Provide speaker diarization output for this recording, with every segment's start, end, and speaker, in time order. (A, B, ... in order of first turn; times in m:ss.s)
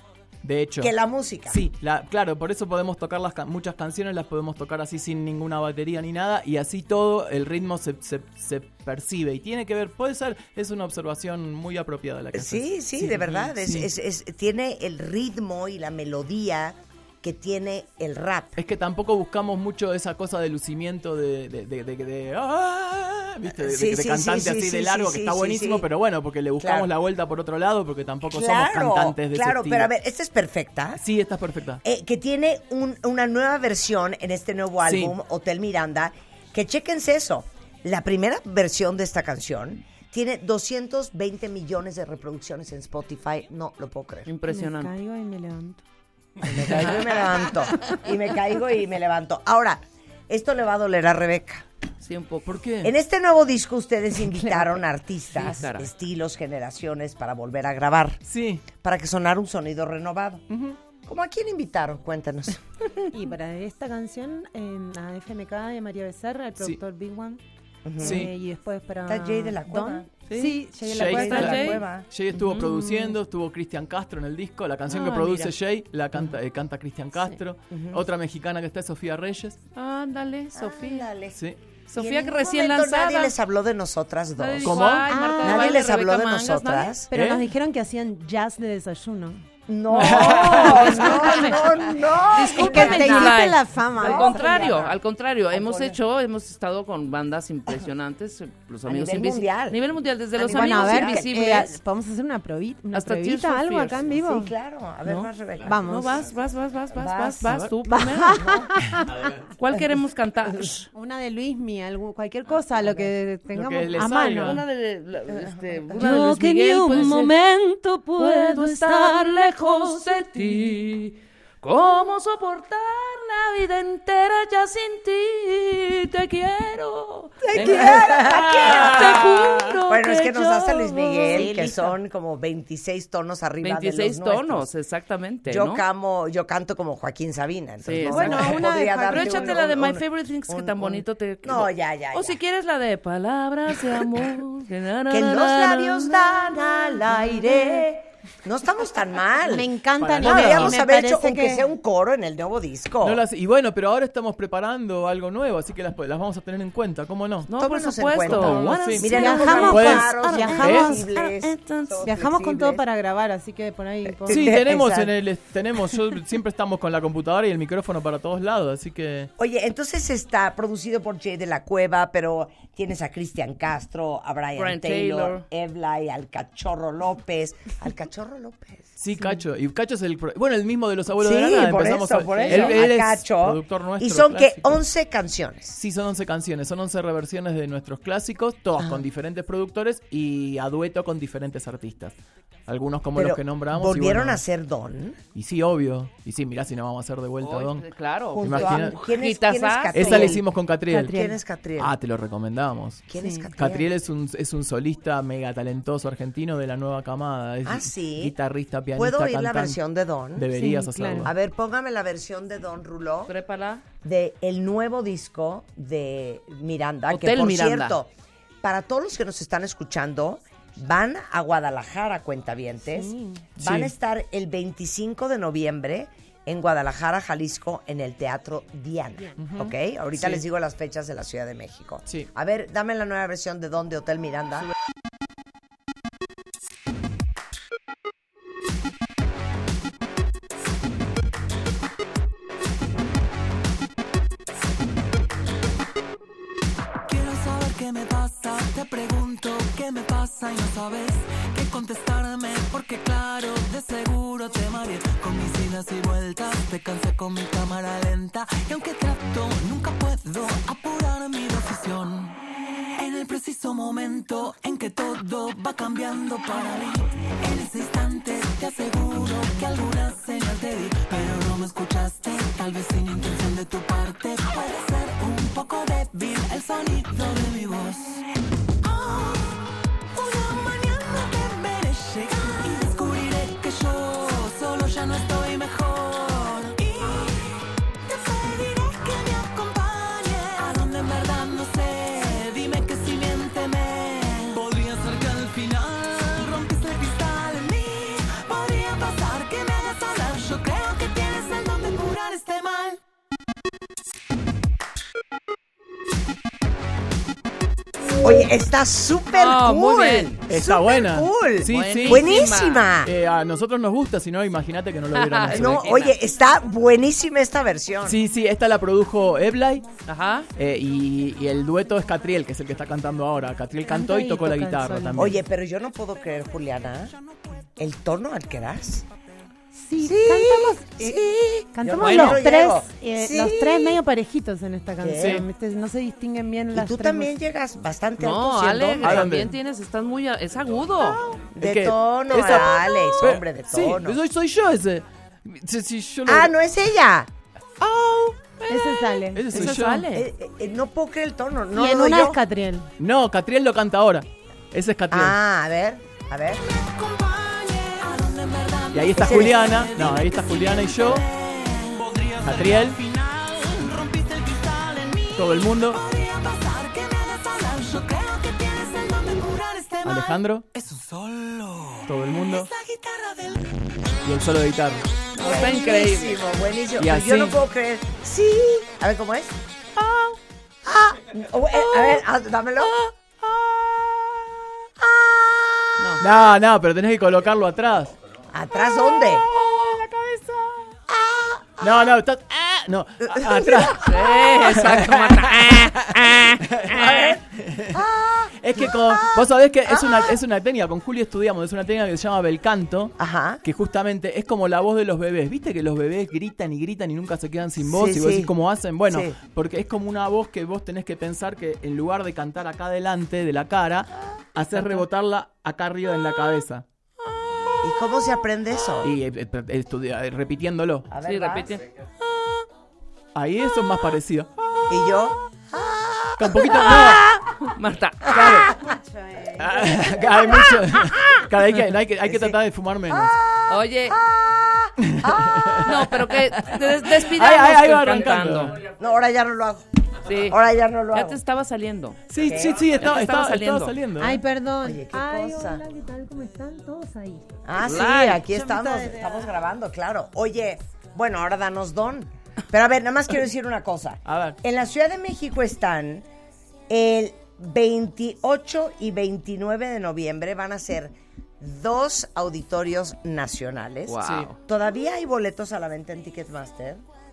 0:00.4-0:00.9 A
0:00.8-0:01.6 B
0:01.5-0:13.9 A
0:12.3-0:18.6 B
0:18.6-0:29.9 A
0:23.5-0:25.9 B
0:26.6-0:26.9 B
0:28.3-0:31.0 B
0:31.0-0:31.8 A
0:31.8-0:44.3 B
0:34.9-0:35.1 A
0:44.3-0:44.9 C
0:44.5-0:45.8 D
0:46.4-0:51.6 B
0:52.0-0:52.6 C
0:52.5-0:52.9 A
0:52.8-0:58.2 B
0:55.3-0:55.9 C
0:58.3-0:58.6 A
0:58.8-1:00.4 B
1:00.5-1:00.8 A
1:01.1-1:03.1 B
1:03.1-1:07.4 D
1:07.8-1:08.3 B
1:08.0-1:11.8 D
1:08.0-1:08.3 A
1:09.1-1:10.1 B
1:10.3-1:19.6 A
1:10.9-1:12.1 B
1:11.2-1:11.8 C
1:12.4-1:13.1 C
1:14.9-1:15.5 C
1:17.7-1:18.0 B
1:19.7-1:21.1 C
1:20.5-1:21.4 B
1:21.9-1:23.3 C
1:21.9-1:24.9 B
1:24.4-1:27.0 C
1:24.6-1:25.1 A
1:25.1-1:25.8 D
1:25.4-1:27.1 B
1:27.1-1:29.5 D
1:27.1-1:27.5 A
1:29.7-1:35.0 B
1:30.0-1:31.3 A
1:30.0-1:31.8 C
1:32.3-1:41.7 C
1:32.5-1:34.6 D
1:35.5-1:36.0 B
1:38.8-1:41.7 B
1:40.5-1:44.5 D
1:42.9-1:44.1 C
1:44.1-1:45.9 B
1:45.6-1:46.2 D
1:45.8-1:48.5 C
1:47.0-1:47.6 B
1:47.4-1:47.7 A
1:47.9-1:49.1 D
1:48.2-1:48.7 B
1:49.6-1:50.9 C
1:50.9-1:54.6 D
1:53.5-1:54.6 A
1:54.4-1:57.3 C
1:55.3-1:55.7 B
1:56.0-2:00.6 D
1:58.2-2:11.8 C
2:07.4-2:14.7 B
2:11.3-2:11.9 D
2:13.6-2:15.8 C
2:15.5-2:22.4 B
2:17.8-2:27.1 C
2:18.1-2:19.6 D
2:25.1-2:33.2 B
2:29.4-2:31.7 D
2:30.0-2:30.8 A
2:33.0-2:37.5 A
2:37.5-2:39.9 C
2:37.5-2:42.8 B
2:38.2-2:41.0 A
2:39.1-2:44.5 D
2:41.6-2:42.1 C
2:44.1-2:45.1 B
2:44.3-2:49.3 A
2:49.4-2:58.9 B
2:54.6-2:55.4 C
2:59.0-3:04.8 A
3:01.2-3:05.8 B
3:02.4-3:02.8 C
3:05.7-3:12.1 A
3:12.7-3:14.4 A
3:13.1-3:15.2 B
3:15.3-3:17.8 A
3:17.4-3:20.4 C
3:18.3-3:20.4 B
3:18.4-3:19.0 A
3:19.9-3:21.2 A
3:20.9-3:21.4 D
3:21.0-3:22.0 B
3:21.8-3:23.1 A
3:23.1-3:23.9 B
3:23.2-3:23.5 D
3:23.6-3:29.8 A
3:27.6-3:28.4 B
3:29.0-3:30.5 B
3:30.4-3:31.3 A
3:30.5-3:31.3 D
3:31.2-3:33.3 B
3:33.3-3:33.8 C
3:34.0-3:38.1 B
3:37.1-3:38.0 C
3:38.6-3:54.7 B
3:42.9-3:43.4 D
3:43.6-3:43.9 A
3:49.4-3:50.4 A
4:07.1-4:22.4 E
4:23.0-4:38.2 E
4:38.8-4:39.6 E
4:40.1-4:47.5 E
4:48.1-5:03.0 E
5:08.2-5:13.1 B
5:09.3-5:10.3 C
5:10.5-5:12.3 A
5:11.6-5:12.9 C
5:13.0-5:16.1 A
5:15.1-5:16.2 C
5:15.5-5:18.2 B
5:18.0-5:19.9 A
5:20.0-5:20.5 C
5:20.6-5:25.4 A
5:23.9-5:25.4 D
5:25.2-5:27.1 B
5:27.8-5:29.1 B
5:29.7-5:37.4 D
5:30.0-5:34.0 B
5:32.0-5:32.4 A
5:35.0-5:35.4 B
5:35.2-5:35.4 A
5:36.7-5:39.4 B
5:38.2-5:41.2 C
5:39.0-5:39.6 A
5:41.0-5:46.5 A
5:41.6-5:44.2 B
5:46.3-5:47.3 B
5:47.8-5:48.6 A
5:48.7-5:49.5 D
5:49.3-5:50.1 A
5:49.5-5:50.3 C
5:50.1-5:52.4 B
5:51.8-5:52.9 D
5:53.0-5:55.4 A
5:55.1-5:56.6 B
5:56.6-6:13.8 E
5:58.9-6:01.2 A
5:59.2-5:59.7 B
6:02.4-6:03.0 A
6:05.4-6:06.0 A
6:10.0-6:10.6 A
6:12.1-6:12.7 A
6:14.2-6:15.1 A
6:15.3-6:16.4 C
6:15.4-6:19.6 B
6:17.0-6:17.6 A
6:20.0-6:20.3 A
6:20.8-6:23.0 B
6:25.0-6:26.2 B
6:26.2-6:28.2 A
6:28.5-6:29.5 B
6:29.5-6:30.9 A
6:31.1-6:32.0 B
6:31.8-6:38.0 A
6:33.2-6:34.4 B
6:34.0-6:37.4 C
6:36.9-6:40.4 B
6:38.6-6:56.8 A
6:43.2-6:43.6 B
6:47.8-6:48.5 B
6:49.1-6:49.4 B
6:57.8-6:59.1 B
6:59.0-7:01.1 A
7:01.1-7:01.8 B
7:01.2-7:01.9 C
7:03.4-7:04.5 A
7:04.9-7:07.2 B
7:06.4-7:07.3 A
7:06.9-7:08.6 C
7:08.3-7:08.7 A
7:08.7-7:10.0 D
7:09.6-7:13.4 A
7:10.1-7:10.6 B
7:12.2-7:16.0 B
7:13.7-7:14.2 C
7:15.0-7:18.8 A
7:15.8-7:18.8 C
7:18.8-7:21.4 B
7:20.2-7:22.3 C
7:22.3-7:24.4 A
7:22.4-7:23.0 B
7:23.0-7:24.0 C
7:24.2-7:27.5 D
7:24.8-7:25.8 B
7:27.6-7:36.3 B
7:27.8-7:28.5 C
7:28.4-7:29.4 D
7:34.3-7:34.6 A
7:36.9-7:47.0 B
7:44.1-7:44.6 C
7:44.2-7:44.5 A